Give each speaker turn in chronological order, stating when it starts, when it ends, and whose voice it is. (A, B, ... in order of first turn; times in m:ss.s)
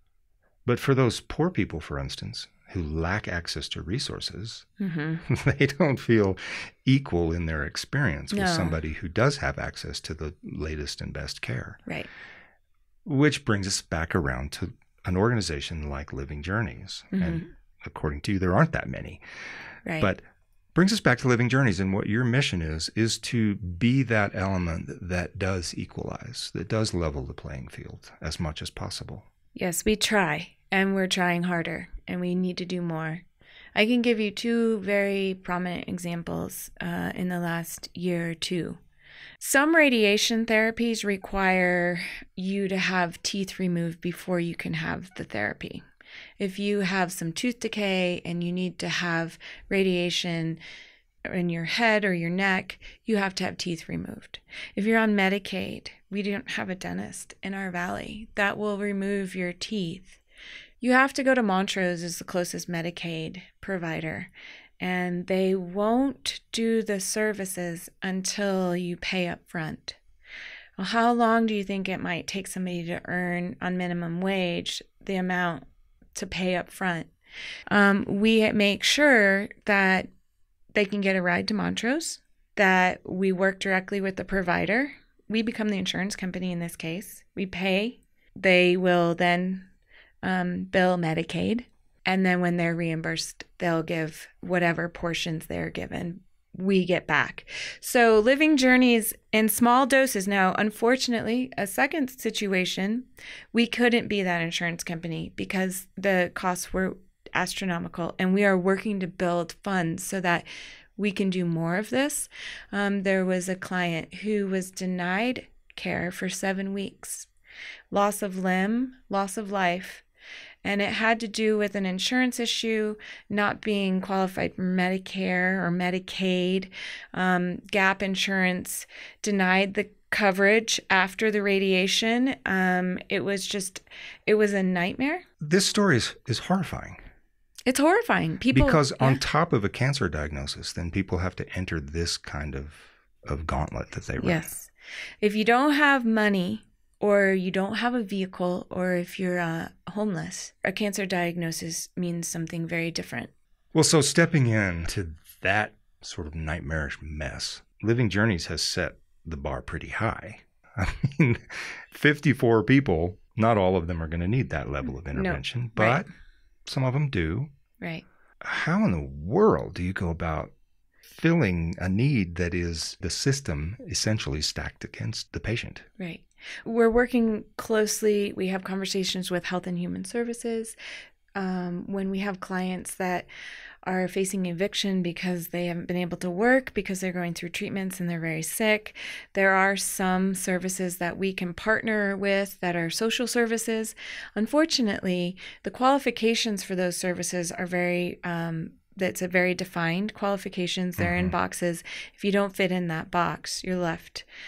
0:00.6-0:04.7 A
0:04.8-0:05.2 B
0:05.2-0:11.8 A
0:08.3-0:08.8 B
0:13.1-0:19.2 A
0:17.1-0:17.5 B
0:19.9-0:20.1 B
0:20.8-0:29.2 A
0:29.6-0:38.8 B
0:39.4-0:45.8 B
0:46.4-0:50.6 B
0:51.2-1:00.2 B
1:00.8-1:10.0 B
1:10.8-1:17.1 B
1:17.7-1:20.1 B
1:20.7-1:29.7 B
1:30.2-1:57.3 B
1:57.9-2:00.0 B
2:00.6-2:15.2 B
2:15.4-2:17.0 A
2:17.7-2:19.2 B
2:18.5-2:24.5 A
2:24.2-2:33.3 B
2:33.7-2:46.1 A
2:45.2-2:46.1 B
2:46.7-2:47.5 A
2:48.4-2:50.5 A
2:51.1-2:55.9 A
2:56.0-3:00.8 B
3:01.4-3:03.3 B
3:03.8-3:24.2 B
3:21.0-3:21.3 A